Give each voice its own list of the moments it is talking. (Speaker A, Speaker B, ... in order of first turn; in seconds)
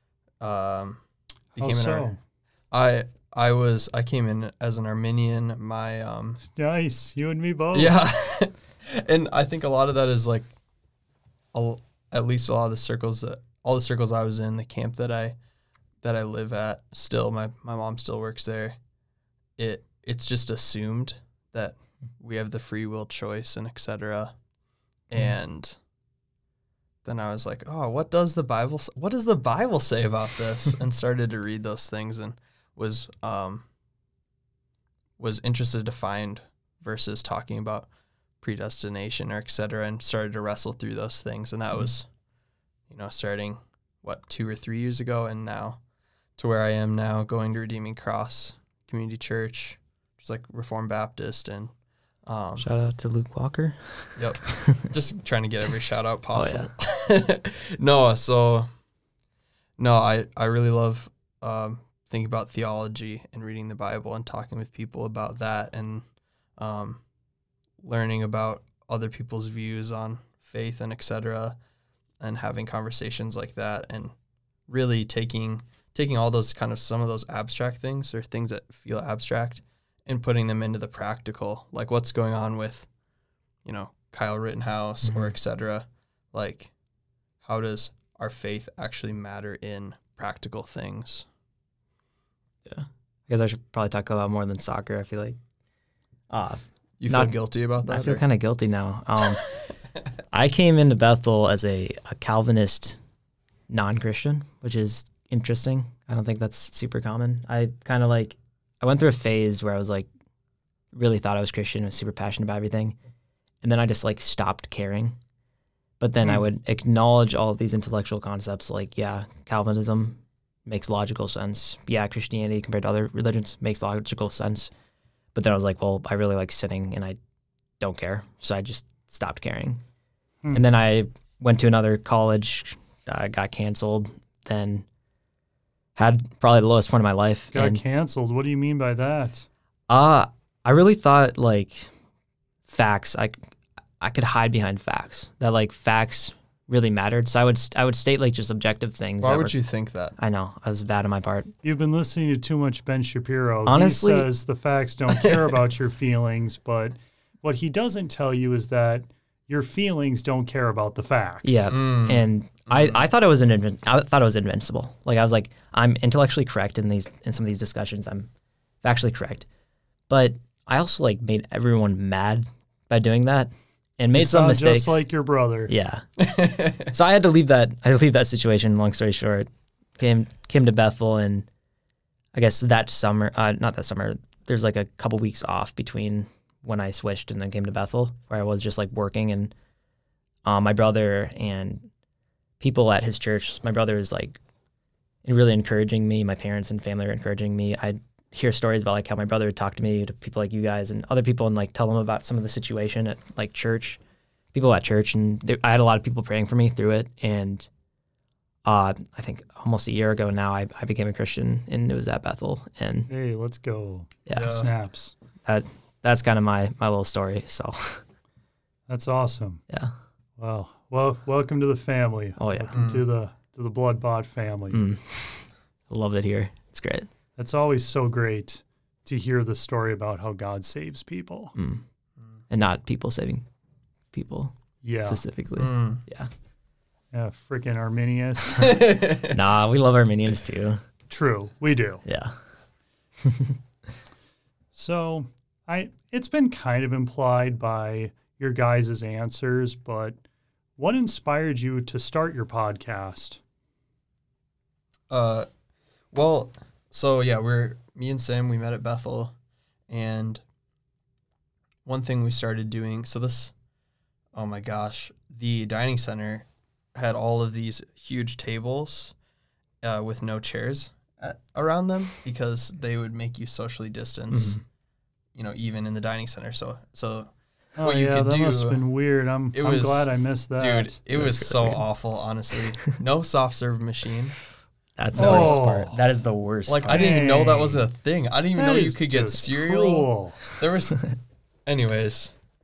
Speaker A: 0.4-1.0, 1.5-2.1, 2.7-6.4, 7.7-10.5, 11.5-15.4, 16.0-18.8, 19.6-24.3, 25.1-25.8, 27.0-33.6, 35.2-37.9, 38.4-42.1, 42.9-45.8, 46.4-51.7, 52.2-52.7, 54.1-58.7, 59.8-66.0, 66.6-67.0, 67.8-71.6, 72.2-74.1, 74.7-82.9, 83.6-86.7, 87.4-91.3, 97.0-98.2, 149.2-150.2, 161.7-163.0, 176.2-176.9, 214.3-214.7, 222.7-223.1, 235.6-236.0, 238.6-239.3, 255.1-255.5, 256.1-259.3, 259.9-260.4, 261.9-263.5, 264.3-269.1, 269.8-274.6, 275.3-278.8, 279.5-284.4, 285.1-285.7, 286.7-291.1, 291.6-292.3
Speaker B: 1.6-2.2, 6.5-7.9, 137.5-139.5, 151.6-161.7, 174.1-175.7, 213.1-215.1, 218.9-219.6, 220.4-224.8, 227.4-231.5, 234.8-235.2, 237.1-238.8, 241.1-242.0, 244.7-250.2, 250.8-253.4, 277.8-281.0, 285.1-286.0, 286.9-287.8, 288.6-290.4
Speaker C: 52.6-54.9, 56.3-56.7, 85.0-85.3, 92.7-95.4, 96.3-99.5, 100.3-103.0, 103.7-110.1, 110.9-113.0, 113.6-115.2, 116.0-124.7, 125.3-127.2, 127.8-129.8, 130.5-134.8, 135.9-137.8, 139.9-141.9, 142.7-149.6, 150.2-151.5, 153.7-154.3, 161.4-168.3, 168.8-169.4, 170.1-175.1, 175.7-176.2, 176.8-181.5, 182.3-189.5, 190.4-191.9, 192.6-194.4, 195.2-204.0, 204.5-207.7, 208.6-213.1, 214.3-214.6, 215.4-218.0, 219.7-219.9, 222.4-222.8, 224.7-227.1, 231.5-231.8, 232.5-233.4, 234.1-236.3, 239.3-240.8, 242.0-242.4, 243.2-243.6, 274.3-274.6, 281.1-281.8, 285.0-287.1